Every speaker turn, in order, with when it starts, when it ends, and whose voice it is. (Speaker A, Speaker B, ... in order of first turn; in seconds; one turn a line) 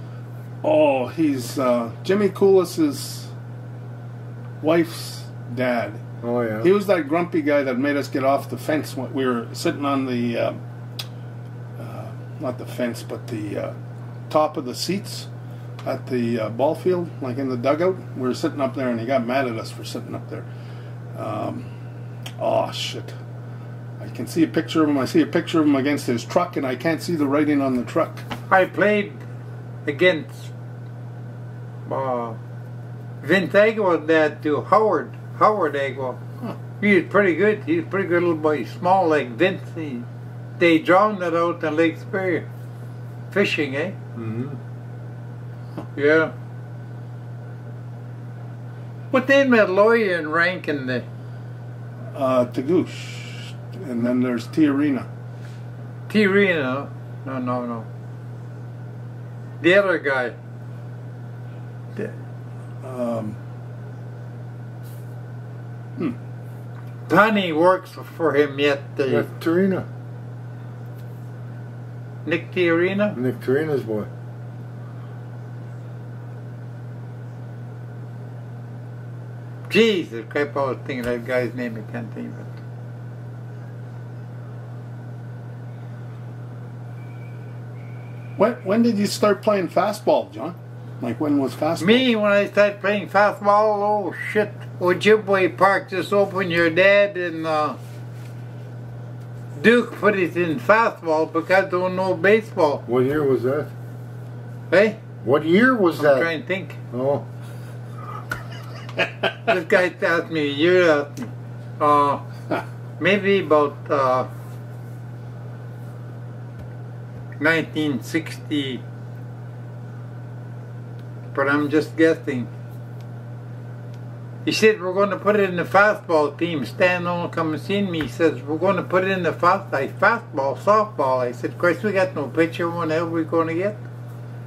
Speaker A: 0.6-3.3
Speaker A: 4.6-6.0
Speaker B: 6.2-6.7
Speaker A: 6.6-10.6
Speaker A: 11.8-13.7
Speaker A: 14.3-15.3
Speaker A: 15.8-20.5
Speaker A: 21.1-21.7
Speaker A: 22.4-23.1
Speaker A: 24.0-28.3
Speaker C: 28.5-29.2
Speaker C: 29.9-30.5
Speaker C: 31.9-32.4
Speaker C: 33.2-36.2
Speaker C: 36.8-40.1
Speaker C: 40.6-42.5
Speaker C: 43.3-44.0
Speaker B: 44.2-44.6
Speaker C: 46.0-46.3
Speaker C: 49.1-51.0
Speaker A: 52.1-55.1
Speaker C: 56.1-57.9
Speaker C: 59.6-60.4
Speaker A: 62.8-63.4
Speaker C: 67.1-69.3
Speaker B: 69.1-69.9
Speaker C: 72.2-73.2
Speaker B: 73.1-74.1
Speaker C: 79.7-82.6
Speaker A: 88.4-92.1
Speaker C: 91.8-97.8
Speaker C: 99.5-102.8
Speaker B: 102.9-103.7
Speaker C: 104.7-105.0
Speaker B: 105.2-106.3
Speaker C: 106.0-106.8
Speaker B: 106.9-107.2
Speaker C: 109.5-112.2
Speaker C: 113.0-114.3
Speaker C: 117.4-118.8
Speaker C: 121.3-122.5
Speaker C: 124.5-133.8